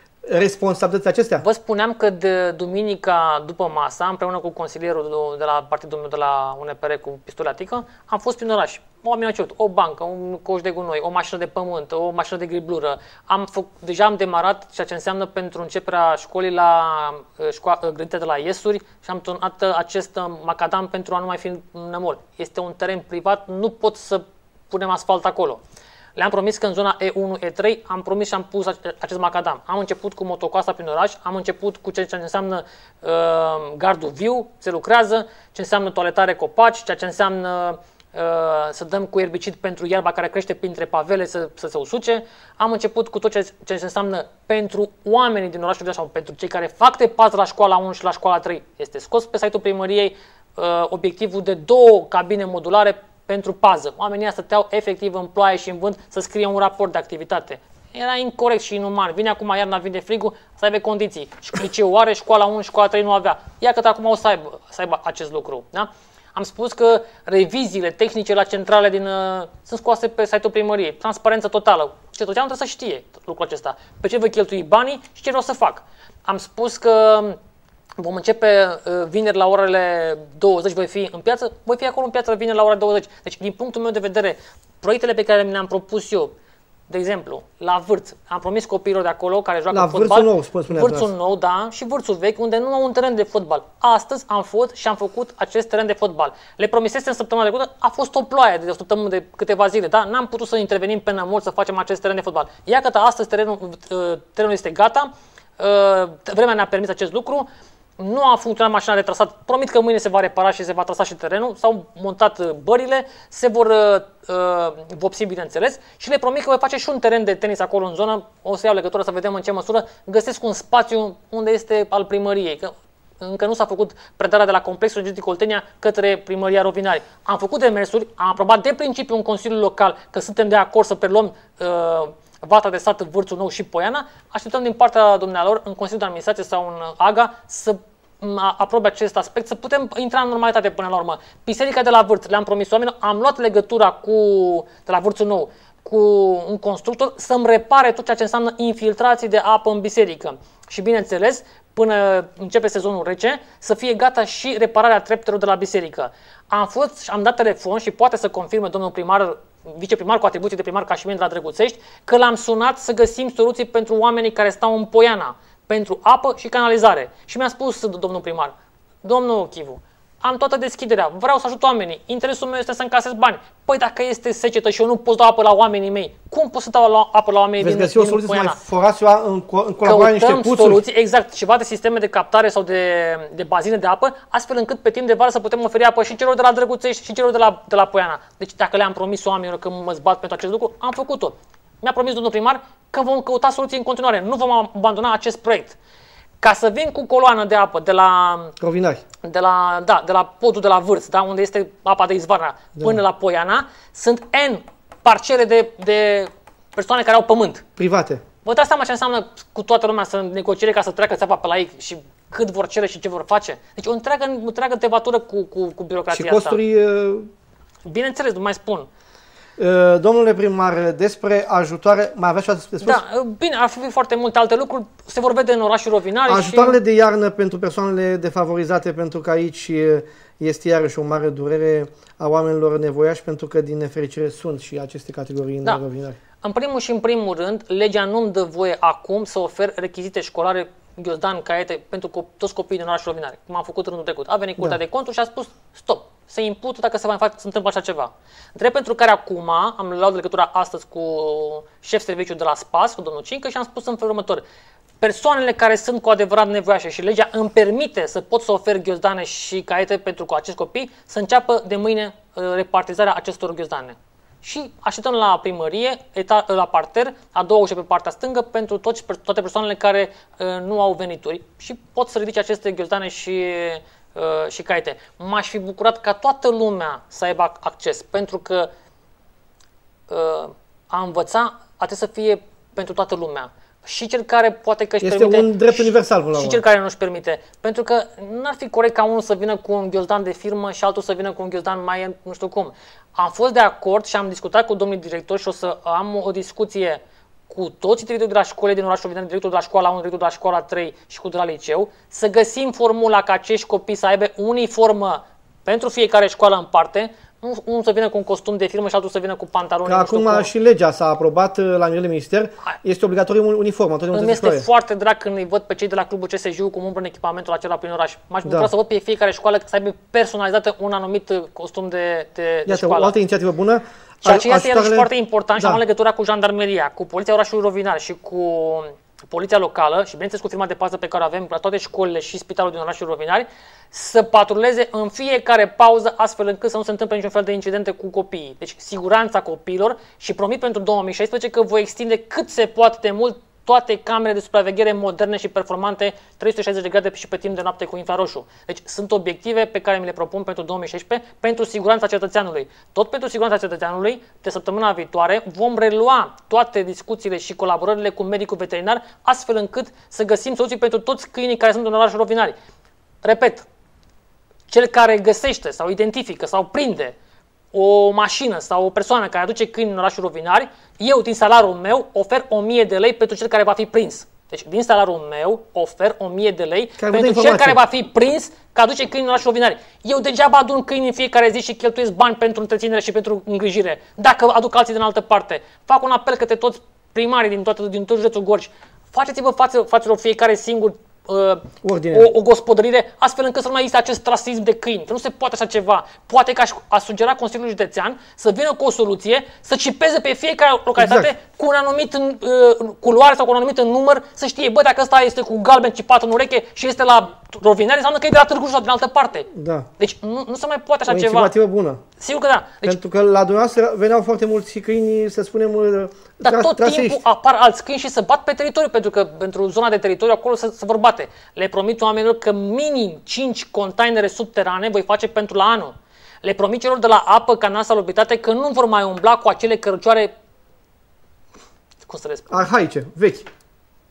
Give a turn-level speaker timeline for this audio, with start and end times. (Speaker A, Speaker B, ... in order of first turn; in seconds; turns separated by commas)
Speaker A: 0.2-1.4, Speaker B: 1.4-25.6, Speaker B: 26.1-77.4, Speaker B: 78.0-86.3, Speaker B: 86.9-178.6, Speaker A: 89.7-91.1, Speaker A: 177.6-180.8, Speaker B: 179.8-195.8, Speaker B: 196.4-198.6, Speaker A: 198.6-199.0, Speaker B: 199.2-207.6, Speaker A: 207.8-208.2, Speaker B: 208.4-216.6, Speaker A: 216.1-217.3, Speaker B: 217.8-218.9, Speaker A: 219.6-223.0, Speaker B: 222.8-226.8, Speaker A: 226.3-236.2, Speaker B: 236.4-254.4, Speaker B: 255.0-278.7, Speaker B: 280.1-310.5, Speaker A: 285.0-286.6, Speaker A: 309.8-314.7, Speaker B: 314.1-323.1, Speaker A: 318.4-318.7, Speaker A: 322.7-325.8, Speaker B: 324.2-362.6, Speaker B: 363.2-363.6, Speaker B: 364.7-367.1, Speaker B: 367.7-411.5, Speaker A: 377.0-377.8, Speaker A: 391.8-392.3, Speaker A: 401.0-401.3, Speaker A: 409.5-409.9, Speaker A: 411.1-412.0, Speaker B: 412.2-413.0, Speaker A: 412.8-417.2, Speaker B: 416.4-430.3, Speaker B: 432.0-432.6, Speaker A: 432.5-433.5